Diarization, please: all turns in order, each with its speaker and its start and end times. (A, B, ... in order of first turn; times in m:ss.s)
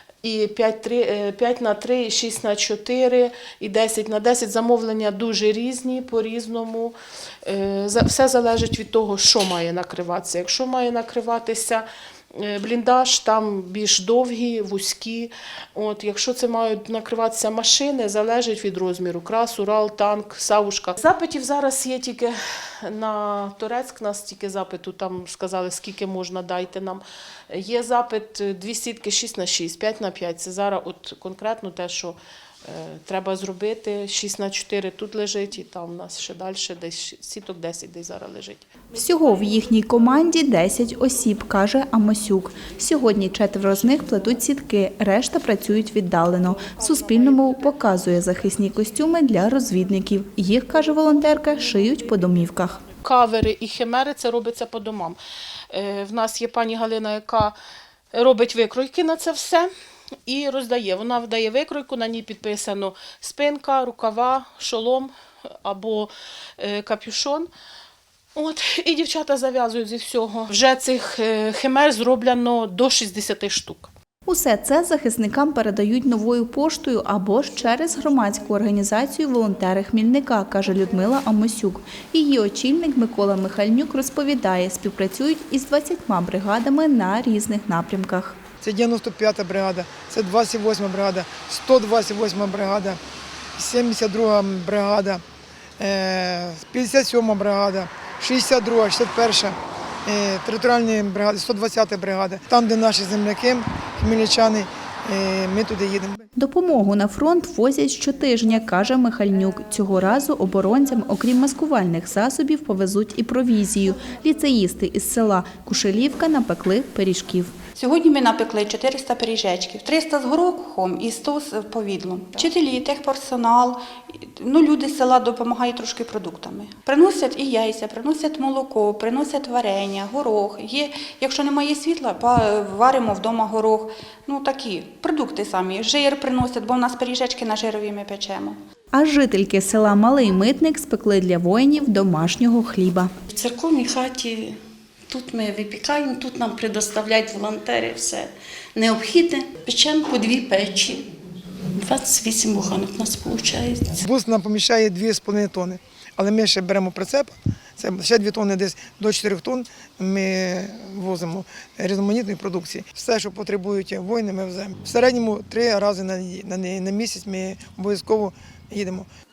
0:00.2-0:38.6 A
0:38.9-0:52.8 B
0:46.7-0:47.8 A
0:53.0-0:55.2 A
0:55.7-0:57.6 A
0:58.1-0:59.7 A
1:00.2-1:05.1 A
1:05.6-1:07.5 A
1:08.3-1:13.9 A
1:14.3-1:28.4 B
1:28.6-1:33.0 C
1:33.6-1:35.2 C
1:35.8-1:46.2 C
1:46.4-1:57.5 B
1:57.8-2:18.6 D
2:18.9-2:23.1 B
2:23.4-2:24.6 E
2:25.1-2:31.0 E
2:31.7-2:33.8 E
2:34.0-2:49.1 C